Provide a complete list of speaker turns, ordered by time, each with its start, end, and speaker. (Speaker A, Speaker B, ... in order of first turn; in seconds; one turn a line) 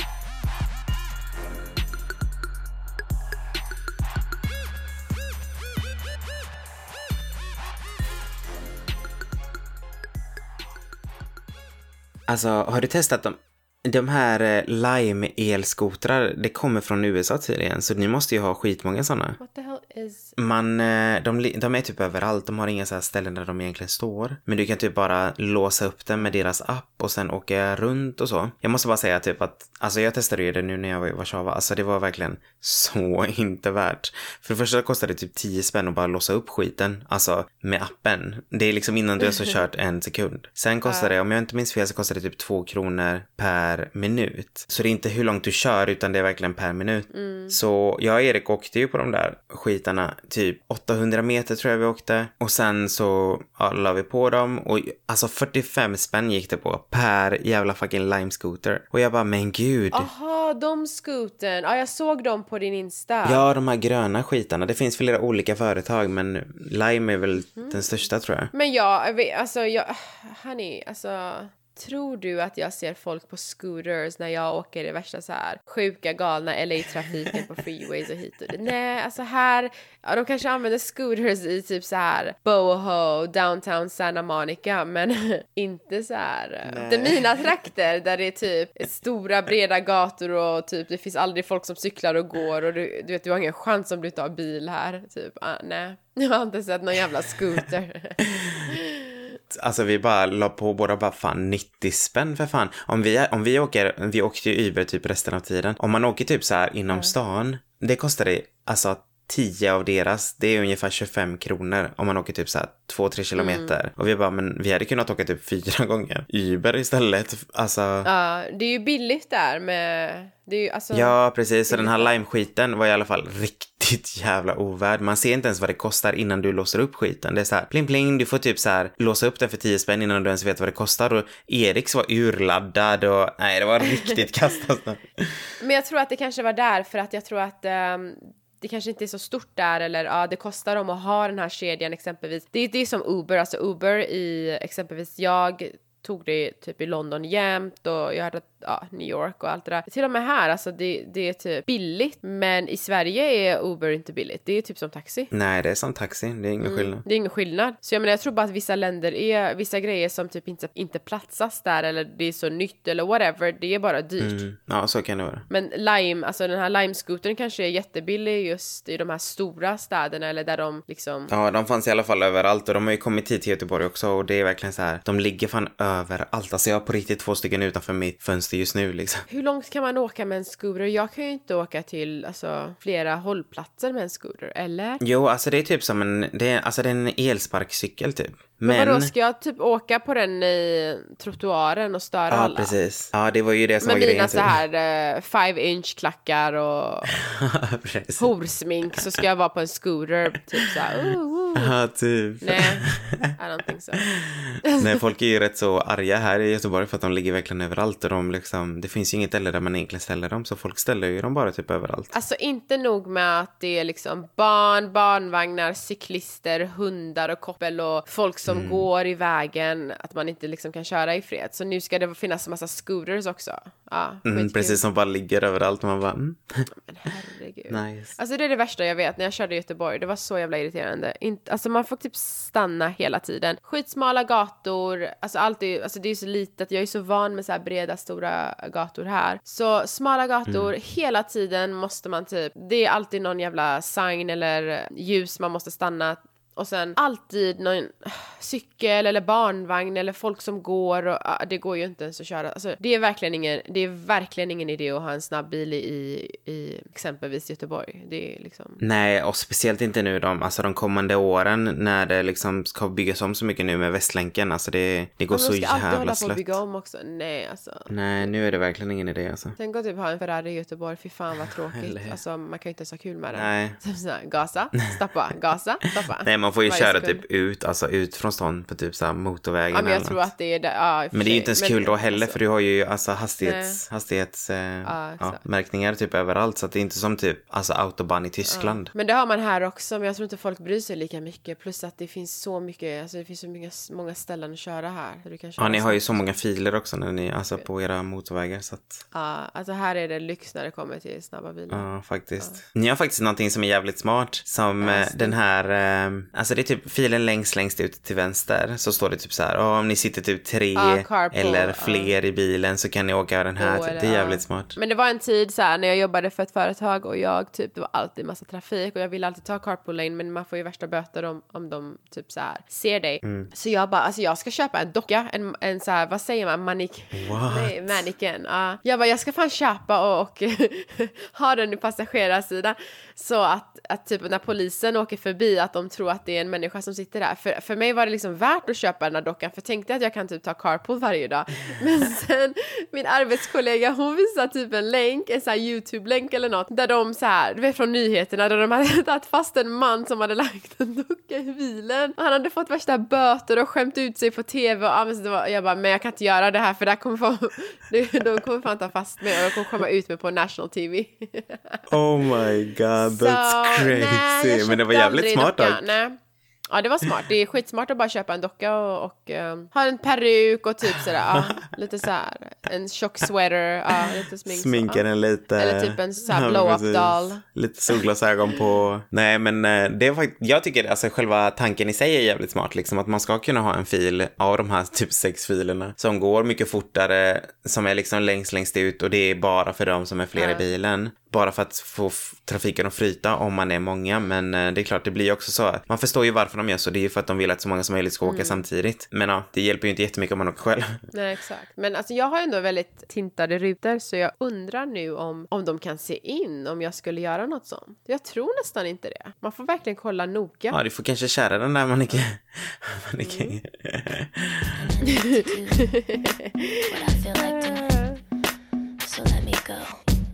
Speaker A: 12.3-19.4
Speaker B: 19.4-20.4
Speaker A: 20.4-60.1
Speaker B: 40.9-41.2
Speaker B: 47.1-47.6
Speaker B: 59.9-63.5
Speaker A: 63.2-68.5
Speaker B: 67.5-67.9
Speaker B: 68.5-99.3
Speaker A: 86.7-87.5
Speaker A: 99.5-118.1
Speaker B: 113.4-113.8
Speaker B: 118.0-121.2
Speaker A: 120.9-135.4
Speaker B: 121.7-122.1
Speaker B: 135.6-155.3
Speaker A: 155.3-157.0
Speaker B: 156.6-164.4
Speaker A: 164.2-165.5
Speaker B: 165.5-171.3
Speaker A: 171.3-179.3
Speaker B: 179.3-185.0
Speaker A: 185.0-189.1
Speaker B: 188.7-192.8
Speaker A: 192.3-194.5
Speaker B: 193.8-197.2
Speaker A: 197.1-198.3
Speaker B: 198.2-201.7
Speaker A: 201.6-203.3
Speaker B: 202.4-204.1
Speaker A: 204.0-212.1
Speaker B: 204.6-205.0
Speaker B: 212.1-224.8
Speaker A: 218.5-218.9
Speaker A: 224.2-226.7
Speaker B: 226.8-258.8
Speaker A: 227.7-228.2
Speaker A: 240.5-240.7
Speaker A: 258.8-266.6
Speaker B: 265.3-268.3
Speaker A: 267.9-269.6
Speaker B: 269.6-277.2
Speaker A: 271.7-272.2
Speaker A: 273.3-273.8
Speaker A: 276.2-280.3
Speaker B: 279.7-282.4
Speaker A: 281.1-288.9
Speaker B: 283.4-283.8
Speaker B: 284.9-285.4
Speaker B: 288.5-296.3
Speaker A: 295.6-299.0
Speaker B: 299.1-301.9
Speaker A: 301.7-314.8
Speaker B: 304.8-305.4
Speaker B: 310.8-312.1
Speaker B: 313.6-361.9
Speaker A: 323.2-323.5
Speaker A: 327.1-327.8
Speaker A: 361.9-365.9
Speaker B: 363.0-366.2
Speaker B: 366.7-375.0
Speaker A: 371.2-371.6
Speaker A: 374.0-401.0
Speaker B: 375.6-377.4
Speaker B: 390.4-390.7
Speaker B: 398.2-398.6
Speaker B: 401.1-410.8
Speaker A: 410.7-414.8
Speaker B: 413.2-413.6
Speaker C: 414.7-416.0
Speaker C: 416.9-418.1
Speaker B: 417.4-418.2
Speaker C: 419.0-420.0